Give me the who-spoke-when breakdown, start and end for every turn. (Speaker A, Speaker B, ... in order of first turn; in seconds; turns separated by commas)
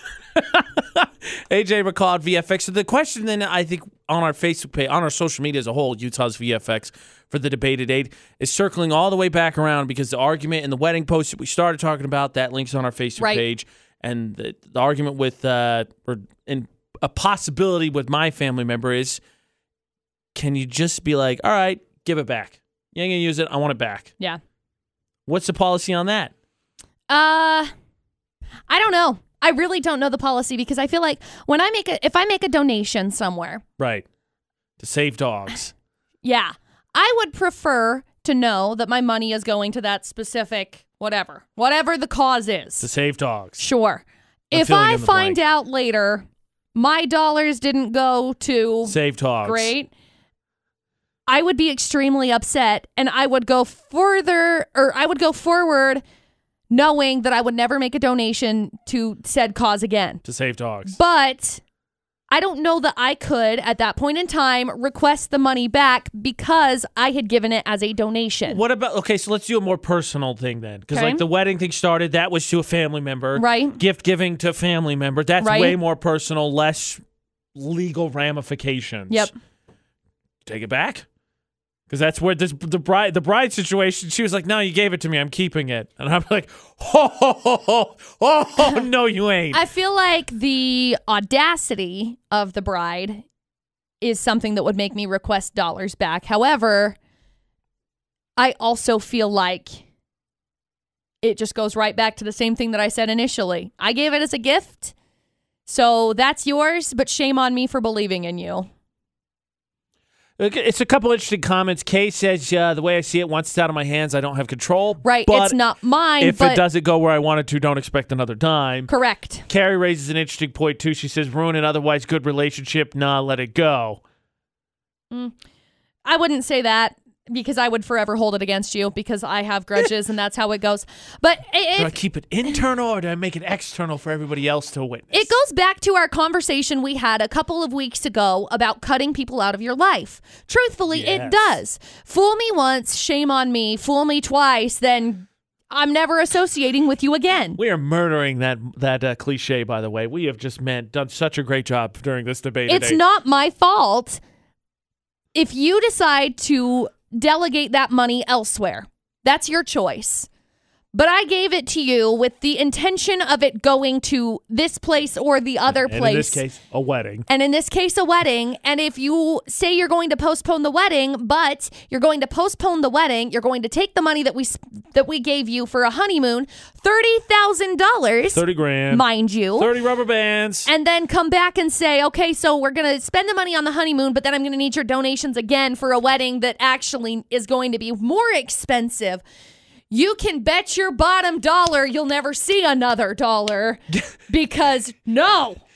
Speaker A: 0.3-19.2, Speaker B: 13.2-13.4, Speaker A: 20.3-24.1, Speaker A: 25.3-26.3, Speaker B: 27.1-27.7, Speaker B: 28.7-33.6, Speaker A: 33.8-34.0, Speaker A: 34.8-35.7, Speaker B: 36.2-42.9, Speaker A: 42.8-43.6, Speaker B: 43.6-49.9, Speaker A: 44.5-45.4, Speaker A: 48.9-49.7, Speaker B: 51.3-56.0, Speaker B: 56.7-60.2, Speaker A: 60.2-61.0, Speaker B: 60.9-61.6, Speaker B: 62.3-68.6, Speaker A: 68.5-77.0, Speaker B: 70.9-71.2, Speaker B: 73.3-73.8, Speaker B: 75.4-75.8, Speaker A: 77.5-79.3, Speaker A: 80.5-81.0, Speaker A: 81.9-89.6, Speaker B: 89.5-93.2, Speaker B: 94.0-97.0, Speaker B: 98.4-99.8, Speaker B: 101.2-104.9, Speaker B: 105.7-108.7, Speaker A: 110.4-115.6, Speaker B: 115.0-116.6, Speaker A: 116.2-118.9, Speaker B: 118.9-119.5, Speaker A: 119.5-124.0, Speaker B: 126.0-131.9, Speaker A: 131.8-135.3, Speaker B: 135.1-147.6, Speaker A: 140.9-141.6, Speaker A: 147.6-153.0, Speaker B: 152.7-154.2, Speaker B: 155.3-160.3, Speaker B: 160.9-166.4, Speaker A: 165.7-167.2, Speaker B: 167.3-179.7, Speaker A: 178.3-179.0, Speaker A: 179.6-180.7, Speaker B: 180.7-189.2, Speaker B: 189.9-195.6